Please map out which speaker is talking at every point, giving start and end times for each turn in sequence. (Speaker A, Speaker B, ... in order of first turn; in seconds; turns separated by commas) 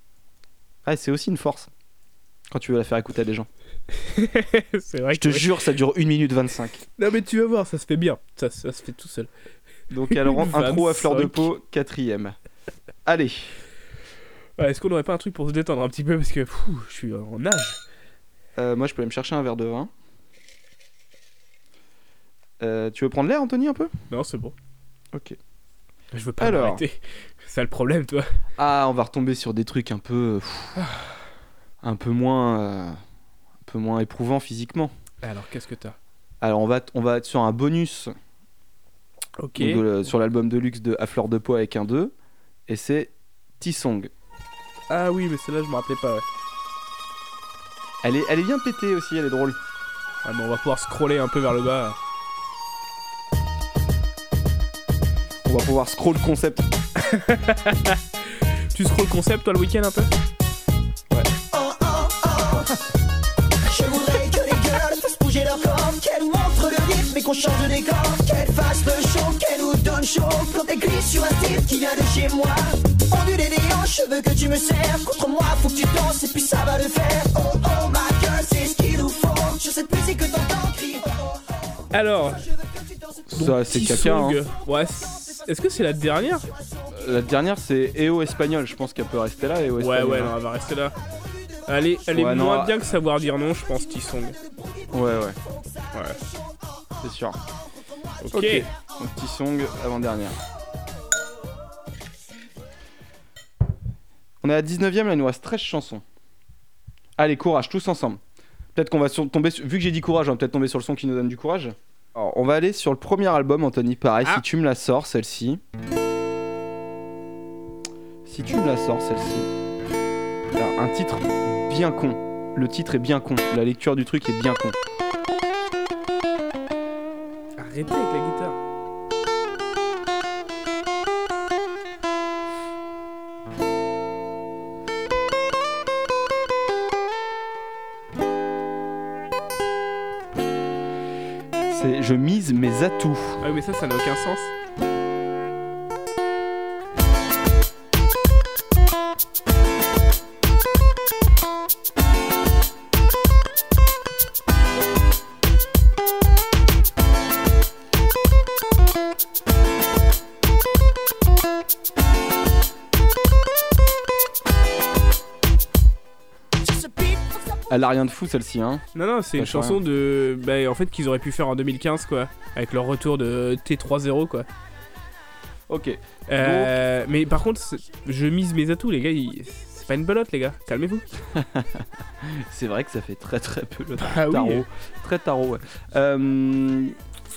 Speaker A: 0.9-1.7, Speaker A: 2.5-3.5, Speaker B: 4.0-5.5, Speaker A: 5.1-6.8, Speaker B: 7.0-9.3, Speaker A: 9.9-12.4, Speaker B: 10.1-11.5, Speaker A: 13.0-13.6, Speaker B: 14.6-17.8, Speaker A: 18.6-19.9, Speaker A: 22.6-23.9, Speaker B: 24.1-24.5, Speaker B: 26.1-28.3, Speaker A: 26.4-26.8, Speaker A: 28.6-30.8, Speaker A: 31.8-33.0, Speaker A: 33.6-34.9, Speaker B: 35.2-36.0, Speaker A: 36.4-38.1, Speaker B: 39.4-39.8, Speaker A: 39.5-42.1, Speaker A: 42.7-44.1, Speaker B: 44.9-46.2, Speaker A: 48.0-49.6, Speaker B: 50.2-52.0, Speaker A: 55.4-56.7, Speaker B: 57.0-58.0, Speaker B: 58.7-60.1, Speaker C: 61.5-62.8, Speaker C: 63.6-81.4, Speaker B: 81.9-82.5, Speaker A: 83.3-84.4, Speaker B: 83.3-86.5, Speaker A: 86.9-90.3, Speaker B: 89.8-91.0, Speaker B: 91.7-94.4, Speaker A: 92.1-92.8, Speaker A: 94.9-95.4, Speaker A: 97.0-97.4, Speaker B: 98.2-98.7, Speaker A: 98.3-100.4, Speaker A: 104.4-106.0, Speaker A: 107.2-108.2, Speaker A: 108.7-115.6, Speaker A: 118.2-119.5, Speaker A: 120.5-124.8, Speaker B: 127.6-128.6, Speaker A: 141.7-143.4, Speaker B: 143.4-144.5, Speaker C: 166.6-167.4, Speaker A: 167.7-169.8, Speaker B: 168.9-174.5, Speaker A: 175.7-176.8, Speaker B: 176.3-181.1, Speaker A: 181.3-186.9, Speaker B: 184.0-184.6